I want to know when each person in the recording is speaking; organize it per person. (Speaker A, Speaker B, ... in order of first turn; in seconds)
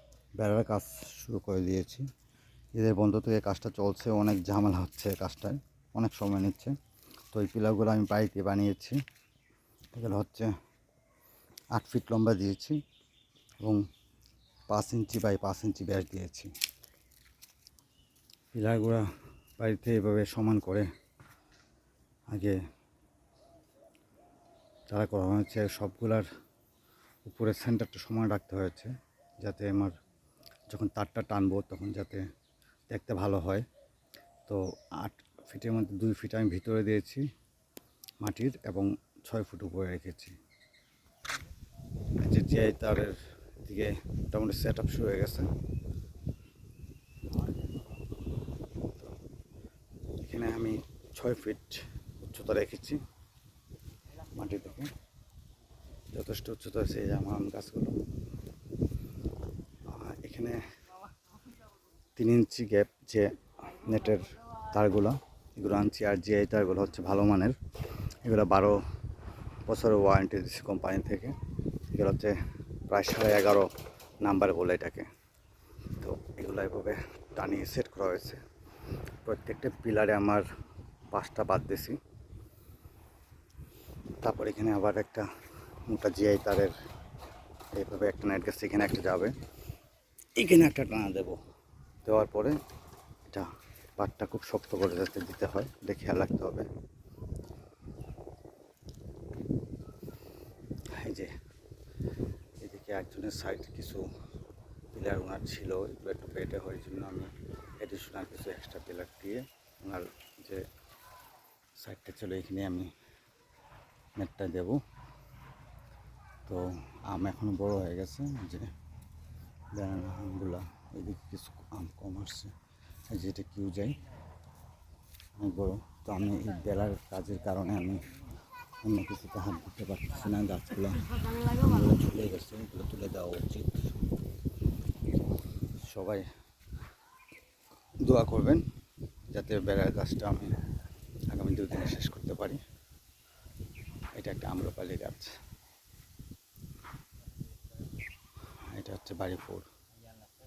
Speaker A: 0.4-2.0, 2.7-6.7, 7.3-9.0, 9.9-10.5, 11.7-12.8, 14.7-16.5, 18.5-19.1, 19.6-20.9, 22.3-22.6, 24.9-26.2, 27.2-28.9, 29.4-29.9, 30.7-32.2, 32.9-33.6, 34.5-37.2, 38.2-40.3, 42.2-45.5, 50.2-53.0, 54.2-54.9, 56.1-58.0, 59.9-60.6, 62.1-67.5, 68.2-68.8, 69.7-71.4, 71.9-72.3, 72.9-73.7, 74.2-75.1, 76.0-78.4, 79.2-80.5, 81.1-82.0, 84.2-85.3, 85.9-86.7, 87.7-89.3, 90.3-91.4, 92.0-92.6, 94.0-96.7, 101.0-101.3, 102.6-104.0, 104.9-110.6, 111.8-112.9, 114.2-114.8, 116.5-118.7, 119.7-122.5, 123.1-124.0, 125.4-128.1, 128.8-133.9, 135.9-136.2, 138.0-138.6, 139.3-140.5, 141.3-142.6, 144.2-145.3, 148.7-149.7